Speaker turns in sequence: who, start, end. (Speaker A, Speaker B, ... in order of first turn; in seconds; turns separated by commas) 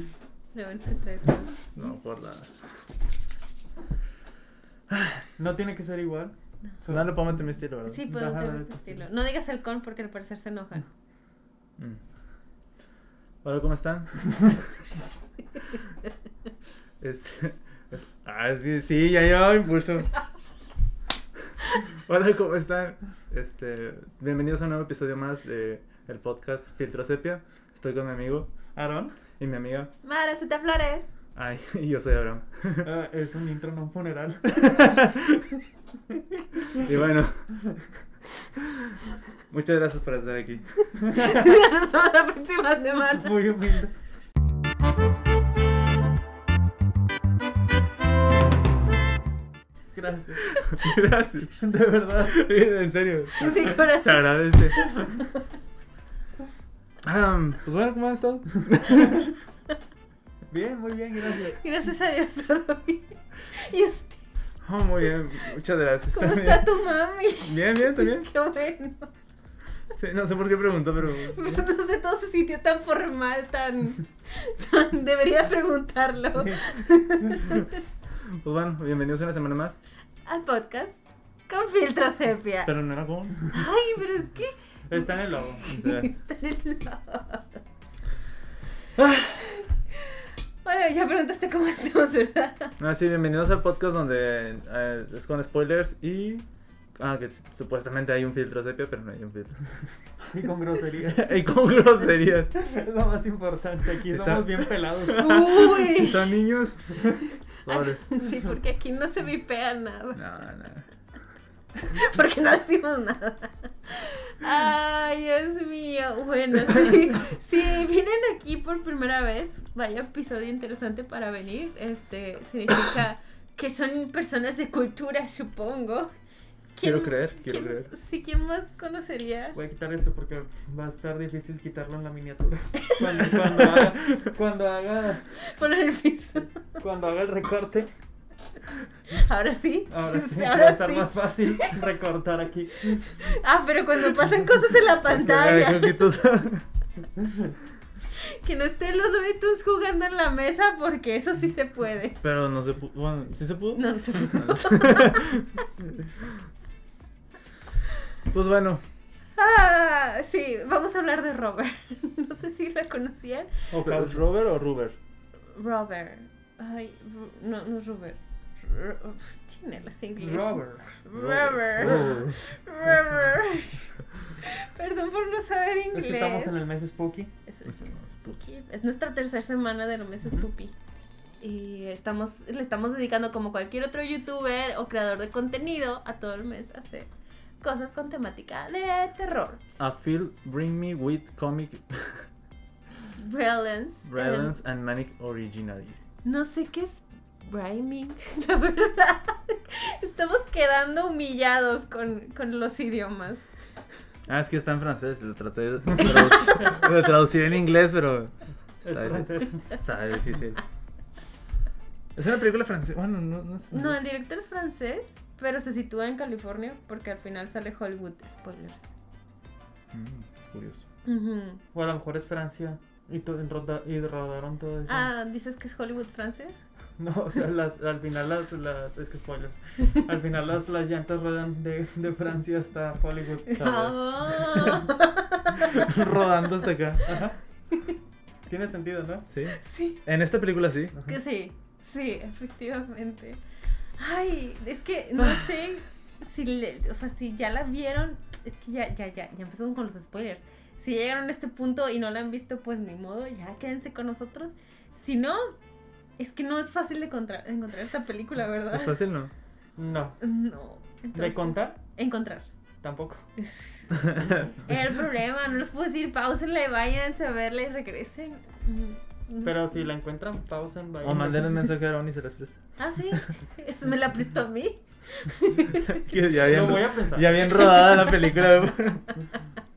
Speaker A: 0.5-1.6, Speaker B: 1.8-2.5, Speaker B: 4.9-5.3, Speaker C: 5.4-7.4, Speaker B: 6.9-8.0, Speaker A: 7.9-10.9, Speaker C: 8.1-9.1, Speaker B: 13.4-14.8, Speaker B: 17.0-20.1, Speaker B: 21.7-28.5, Speaker C: 28.8-29.1, Speaker B: 29.4-29.9, Speaker A: 30.0-31.1, Speaker B: 31.4-32.9, Speaker C: 32.8-34.9, Speaker B: 34.6-35.5, Speaker B: 36.7-37.5, Speaker B: 38.6-39.0, Speaker B: 39.5-40.9, Speaker A: 41.0-43.6, Speaker C: 41.1-41.5, Speaker C: 43.1-43.9, Speaker C: 50.0-50.5, Speaker B: 50.6-51.6, Speaker C: 51.6-52.5, Speaker B: 52.2-54.9, Speaker A: 53.4-55.2, Speaker B: 57.0-59.2, Speaker C: 60.5-61.6, Speaker A: 61.5-64.2, Speaker B: 64.6-66.7, Speaker A: 66.1-69.1, Speaker B: 67.4-68.3, Speaker B: 69.9-71.7, Speaker A: 71.2-77.8, Speaker C: 76.2-77.4, Speaker B: 78.2-79.8, Speaker A: 80.3-81.0, Speaker A: 81.5-82.7, Speaker B: 82.7-83.5, Speaker A: 83.5-85.1, Speaker C: 84.9-85.7, Speaker A: 85.6-87.6, Speaker B: 85.7-86.1, Speaker B: 89.0-89.6, Speaker A: 89.5-92.8, Speaker B: 92.8-96.5, Speaker B: 97.0-99.6, Speaker C: 100.2-101.3, Speaker B: 101.1-102.5, Speaker C: 102.5-105.3, Speaker B: 104.1-107.0, Speaker A: 105.1-106.3, Speaker B: 107.7-108.1, Speaker A: 107.7-110.3, Speaker B: 110.2-110.9, Speaker A: 111.9-126.1, Speaker A: 126.8-129.6, Speaker B: 126.8-127.9, Speaker C: 129.5-135.4, Speaker A: 132.8-133.1, Speaker B: 133.4-134.2, Speaker A: 135.4-136.6, Speaker C: 136.8-137.9, Speaker A: 139.1-141.8, Speaker C: 139.9-143.3, Speaker A: 142.8-146.1, Speaker B: 145.2-146.7, Speaker C: 147.2-147.5, Speaker A: 148.1-152.2, Speaker B: 152.2-155.5, Speaker A: 153.7-155.3, Speaker B: 158.3-158.8, Speaker A: 159.4-163.5, Speaker C: 163.7-164.2, Speaker B: 163.7-165.0, Speaker A: 165.5-176.5, Speaker C: 170.2-171.0, Speaker B: 171.1-172.5, Speaker C: 175.9-177.3, Speaker A: 177.5-180.7, Speaker B: 177.7-178.3, Speaker A: 181.4-187.1, Speaker A: 187.6-189.6, Speaker B: 189.8-192.3, Speaker A: 193.2-194.6, Speaker B: 194.1-196.0, Speaker A: 196.2-203.5, Speaker B: 204.3-208.3, Speaker C: 208.8-209.8, Speaker B: 208.8-210.6, Speaker B: 212.2-214.0, Speaker A: 213.7-218.9, Speaker B: 219.9-220.8, Speaker A: 221.1-221.6, Speaker C: 221.7-225.1, Speaker A: 224.9-226.6, Speaker C: 227.0-234.9, Speaker A: 233.5-236.1, Speaker B: 235.8-237.1, Speaker C: 237.1-237.4, Speaker A: 237.7-238.0, Speaker C: 238.5-239.3, Speaker B: 239.3-240.9, Speaker A: 239.5-240.0, Speaker A: 241.1-243.4, Speaker A: 244.0-255.6, Speaker B: 245.2-245.6, Speaker A: 256.2-259.0, Speaker B: 258.7-259.3, Speaker C: 259.8-260.2, Speaker A: 260.2-262.5, Speaker C: 261.1-261.8, Speaker C: 262.8-263.3, Speaker A: 263.4-269.8, Speaker B: 263.9-264.4, Speaker C: 269.4-271.6, Speaker B: 271.0-273.2, Speaker A: 272.8-276.1, Speaker B: 275.9-279.1, Speaker C: 276.4-277.5, Speaker A: 277.4-278.3